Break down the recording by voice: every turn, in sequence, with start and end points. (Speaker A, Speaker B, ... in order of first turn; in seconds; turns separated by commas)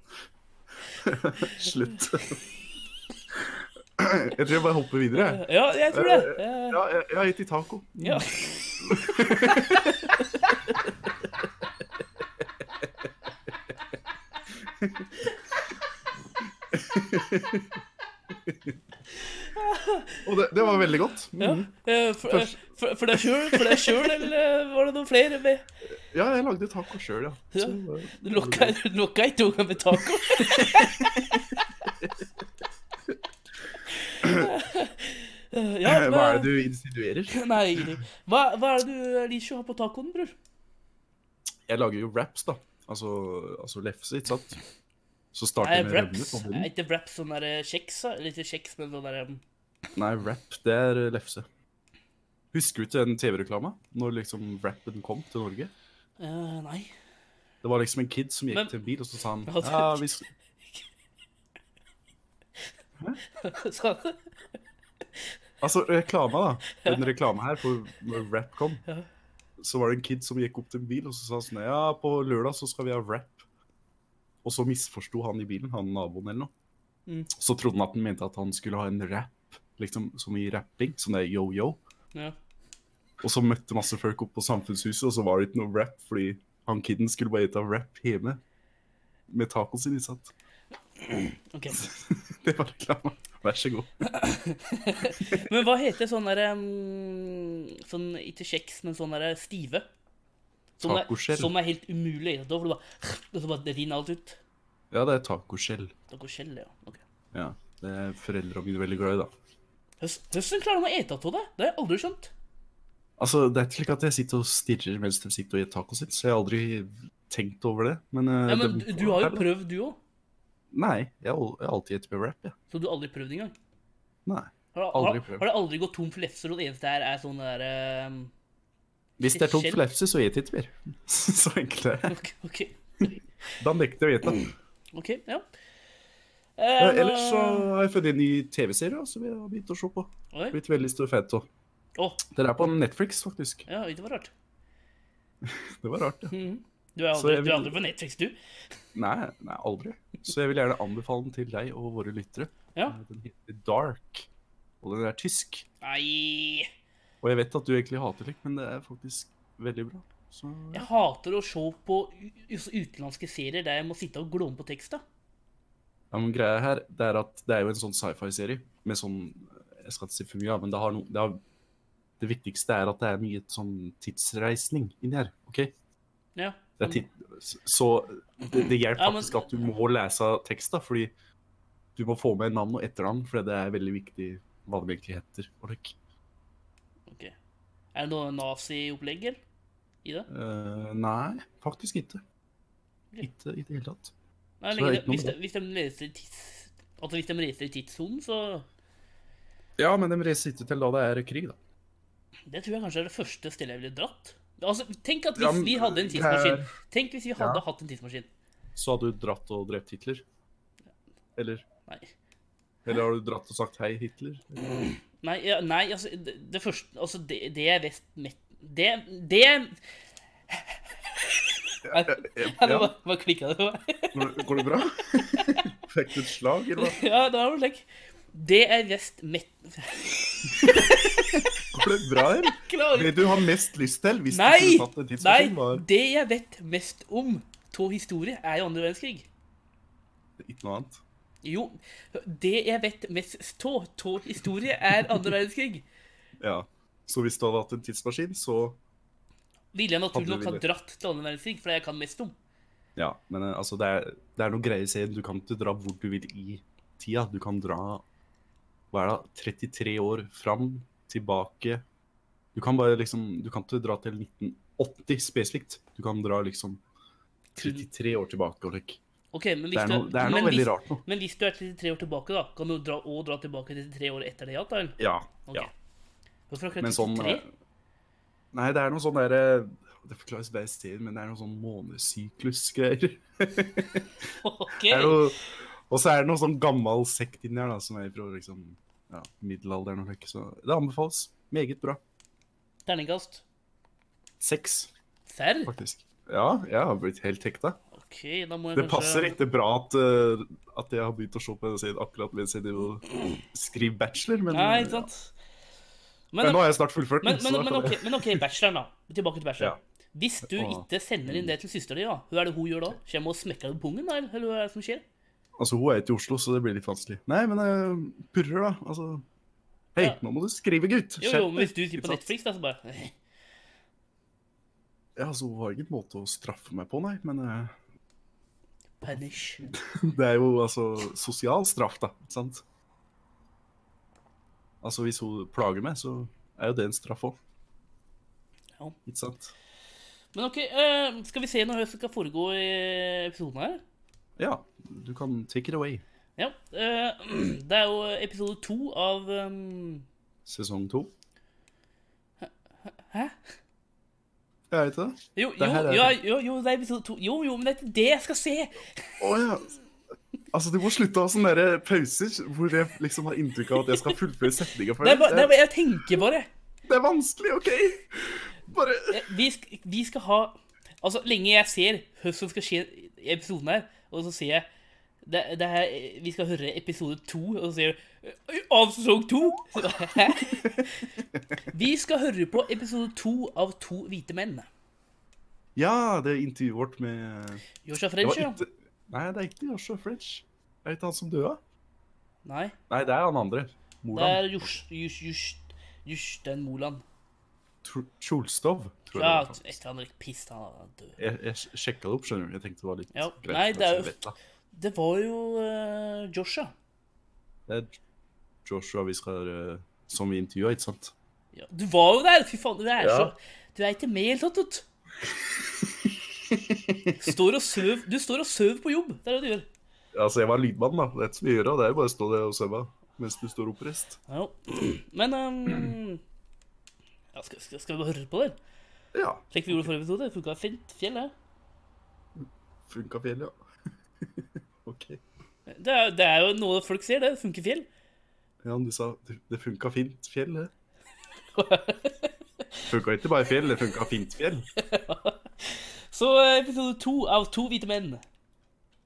Speaker A: 0.9-2.4, Speaker A: 3.3-8.3, Speaker B: 5.1-6.8, Speaker B: 8.0-8.9, Speaker A: 8.8-10.2, Speaker B: 9.4-9.9, Speaker A: 14.8-15.1, Speaker A: 16.7-17.8, Speaker A: 18.4-18.7, Speaker B: 19.5-20.2, Speaker A: 20.2-21.7, Speaker B: 21.4-25.6, Speaker A: 22.2-22.6, Speaker A: 23.1-24.2, Speaker A: 25.9-28.7, Speaker B: 27.5-31.2, Speaker A: 30.3-31.4, Speaker B: 34.1-36.5, Speaker A: 34.2-34.5, Speaker A: 35.8-38.0, Speaker B: 37.3-40.3, Speaker A: 41.7-44.6, Speaker A: 45.3-46.7, Speaker B: 45.6-49.4, Speaker A: 49.9-51.5, Speaker A: 52.5-55.7, Speaker B: 56.2-56.9, Speaker A: 57.6-60.3, Speaker B: 59.5-60.0, Speaker B: 63.4-64.2, Speaker A: 65.6-68.8, Speaker B: 66.8-67.1, Speaker A: 69.6-73.4, Speaker A: 74.4-76.5, Speaker A: 77.3-81.8, Speaker A: 83.2-88.4, Speaker A: 89.3-90.3, Speaker B: 91.5-91.9, Speaker A: 91.8-93.9, Speaker B: 94.0-99.8, Speaker B: 100.8-104.4, Speaker A: 100.8-101.5, Speaker A: 104.9-105.9, Speaker B: 106.1-107.0, Speaker A: 107.3-109.3, Speaker B: 110.0-112.3, Speaker A: 113.2-119.5, Speaker B: 118.5-120.0, Speaker A: 120.7-122.5, Speaker B: 122.7-123.5, Speaker A: 124.2-125.5, Speaker B: 124.7-128.3, Speaker A: 129.2-132.2, Speaker B: 129.3-129.8, Speaker B: 132.1-132.7, Speaker A: 133.6-134.5, Speaker B: 134.9-135.4, Speaker B: 136.6-137.7, Speaker A: 136.8-141.5, Speaker B: 140.3-140.6, Speaker B: 142.0-142.2, Speaker A: 142.3-143.7, Speaker B: 143.7-144.3, Speaker A: 145.4-146.3, Speaker B: 146.3-148.3, Speaker A: 147.1-147.8, Speaker A: 148.9-154.3, Speaker A: 154.8-155.7, Speaker B: 155.8-156.7, Speaker A: 157.2-160.9, Speaker B: 160.7-165.0, Speaker A: 166.1-171.4, Speaker A: 172.2-175.7, Speaker B: 176.3-177.0, Speaker A: 176.8-181.1, Speaker B: 178.9-179.7, Speaker A: 181.9-185.9, Speaker B: 187.9-189.4, Speaker A: 190.3-192.2, Speaker A: 193.2-194.1, Speaker B: 194.6-198.7, Speaker A: 194.7-195.4, Speaker A: 199.8-201.6, Speaker B: 202.5-208.3, Speaker A: 205.3-206.7, Speaker A: 207.4-207.6, Speaker A: 208.8-210.2, Speaker A: 211.3-211.6, Speaker A: 212.8-214.7, Speaker B: 214.8-219.8, Speaker B: 220.5-224.7, Speaker A: 221.8-222.9, Speaker A: 224.1-227.0, Speaker B: 225.3-225.6, Speaker B: 226.8-231.4, Speaker A: 230.6-235.8, Speaker B: 232.6-233.3, Speaker B: 234.3-239.3, Speaker A: 240.4-241.0, Speaker B: 241.4-245.8, Speaker A: 246.4-248.8, Speaker B: 249.7-252.3, Speaker A: 250.1-250.6, Speaker A: 252.9-258.0, Speaker A: 258.9-261.8, Speaker A: 262.5-266.8, Speaker B: 267.6-267.9, Speaker A: 267.6-269.0, Speaker B: 269.3-275.7, Speaker A: 269.7-271.0, Speaker A: 275.0-275.7, Speaker B: 276.5-277.4, Speaker A: 276.8-277.5, Speaker A: 278.5-284.3, Speaker B: 284.4-285.2, Speaker A: 284.8-292.0, Speaker B: 292.9-293.4, Speaker A: 294.4-294.9, Speaker B: 295.3-295.7, Speaker A: 295.6-297.8, Speaker B: 297.9-299.4, Speaker A: 298.7-305.1, Speaker B: 304.5-305.3, Speaker B: 306.3-306.6, Speaker A: 306.4-308.4, Speaker B: 307.2-315.0, Speaker A: 310.4-311.5, Speaker A: 315.6-319.2, Speaker A: 319.9-322.3, Speaker B: 321.2-323.1, Speaker A: 325.1-327.7, Speaker B: 329.0-329.7, Speaker A: 329.7-332.6, Speaker A: 334.8-337.4, Speaker A: 339.1-339.5, Speaker B: 340.3-343.8, Speaker A: 344.4-346.0, Speaker B: 346.4-350.0, Speaker A: 350.4-351.1, Speaker B: 352.4-353.4, Speaker A: 354.7-356.2, Speaker B: 355.4-358.8, Speaker A: 359.2-359.7, Speaker A: 360.5-365.6, Speaker B: 363.9-364.1, Speaker B: 365.0-366.5, Speaker A: 366.8-369.2, Speaker B: 369.1-374.7, Speaker B: 375.2-381.1, Speaker B: 381.7-384.7, Speaker A: 385.8-387.6, Speaker B: 387.8-388.6, Speaker A: 388.2-391.6, Speaker B: 392.4-392.8, Speaker A: 392.9-394.7, Speaker B: 394.1-397.0, Speaker A: 397.8-399.8, Speaker B: 399.1-401.2, Speaker A: 401.2-404.3, Speaker B: 403.1-404.1, Speaker B: 404.7-406.7, Speaker A: 407.7-407.9, Speaker A: 408.6-411.1, Speaker B: 411.5-414.8, Speaker A: 413.0-413.3, Speaker A: 415.6-417.1, Speaker B: 417.1-419.6, Speaker A: 420.1-424.2, Speaker B: 424.3-426.2, Speaker B: 427.3-428.6, Speaker A: 429.1-429.9, Speaker B: 429.5-431.3, Speaker A: 432.4-433.6, Speaker A: 434.2-435.2, Speaker B: 435.7-437.9, Speaker A: 438.6-440.7, Speaker B: 441.5-442.3, Speaker A: 442.9-444.6, Speaker B: 444.8-448.2